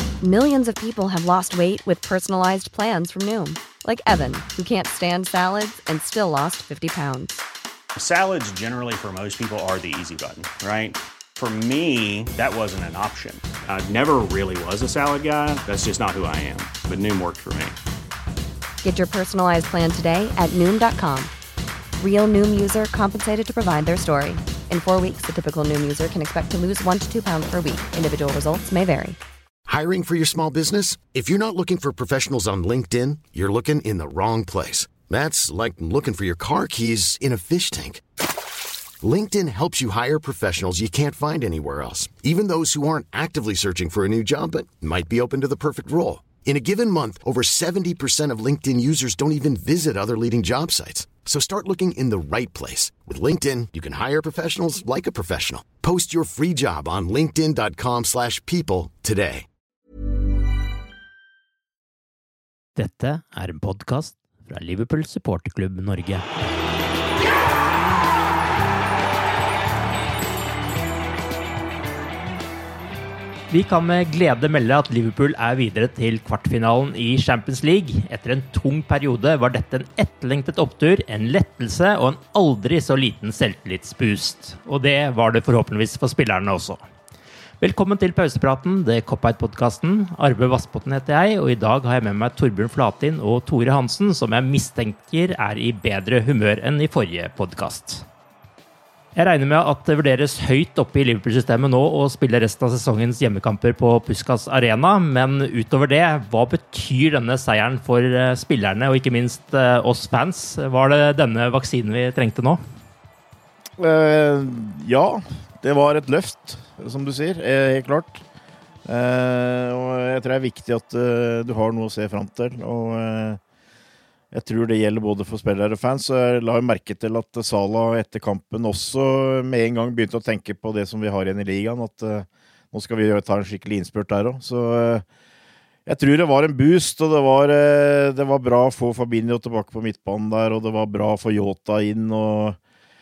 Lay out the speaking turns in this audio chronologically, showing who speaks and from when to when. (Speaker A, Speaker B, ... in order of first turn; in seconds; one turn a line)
Speaker A: 0.2-7.4
Speaker B: 8.0-17.8
Speaker A: 18.8-21.3
Speaker A: 22.0-29.2
Speaker C: 29.7-38.0
Speaker C: 39.0-59.5
Speaker D: 62.8-66.2
Speaker D: 73.5-86.8
Speaker D: 87.6-98.0
Speaker D: 99.2-112.6
Speaker E: 113.8-118.2
Speaker E: 118.8-123.4
Speaker E: 124.3-135.0
Speaker E: 135.8-142.6